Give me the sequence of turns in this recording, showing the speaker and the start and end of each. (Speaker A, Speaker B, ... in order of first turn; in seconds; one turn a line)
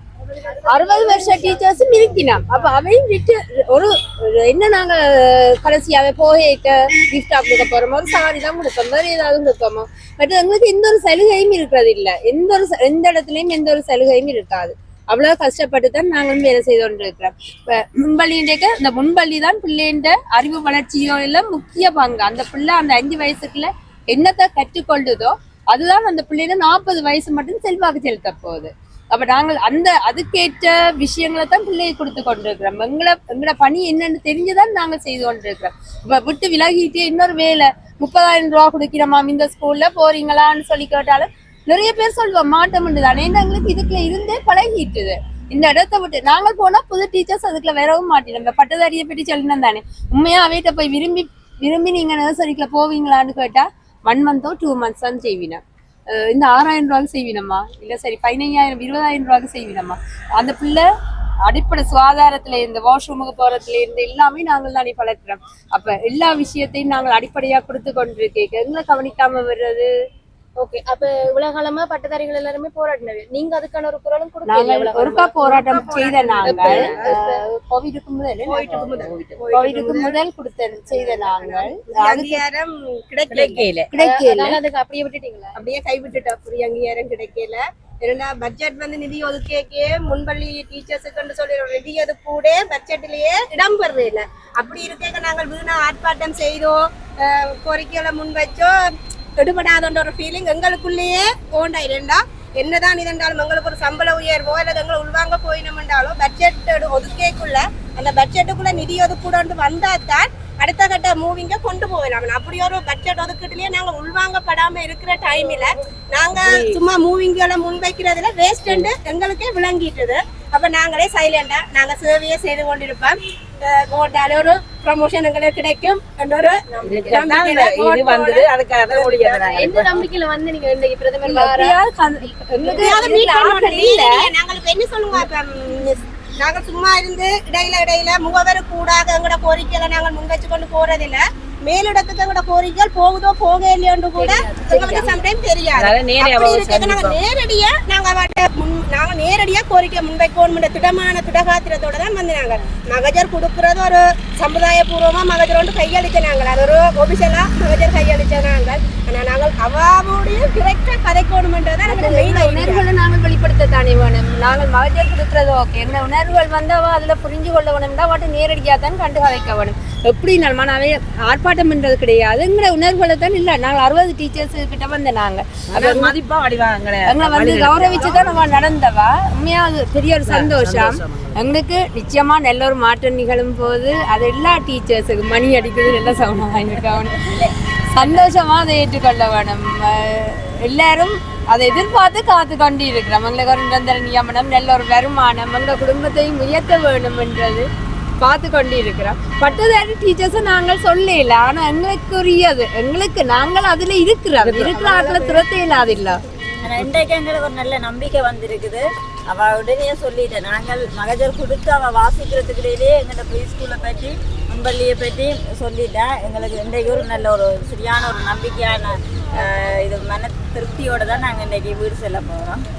Speaker A: 0.5-1.7
Speaker B: 0.7-60.9
Speaker B: 61.5-69.9
Speaker A: 70.6-77.4
Speaker B: 74.5-78.8
Speaker C: 75.7-76.9
Speaker D: 76.5-76.9
Speaker C: 78.4-80.2
Speaker D: 78.7-79.4
Speaker B: 79.5-82.4
Speaker C: 80.9-83.7
Speaker D: 83.3-83.9
Speaker B: 83.9-84.6
Speaker A: 84.0-85.5
Speaker C: 85.6-98.7
Speaker C: 99.4-129.6
Speaker D: 116.3-116.8
Speaker D: 126.8-129.9
Speaker A: 129.5-131.8
Speaker B: 131.2-134.3
Speaker C: 132.7-162.8
Speaker B: 144.2-145.2
Speaker D: 145.8-147.2
Speaker B: 161.8-176.2
Speaker D: 175.7-178.5
Speaker B: 177.0-187.3
Speaker D: 180.2-181.5
Speaker D: 187.2-188.3
Speaker B: 187.9-197.7
Speaker B: 198.2-206.2
Speaker E: 206.6-222.6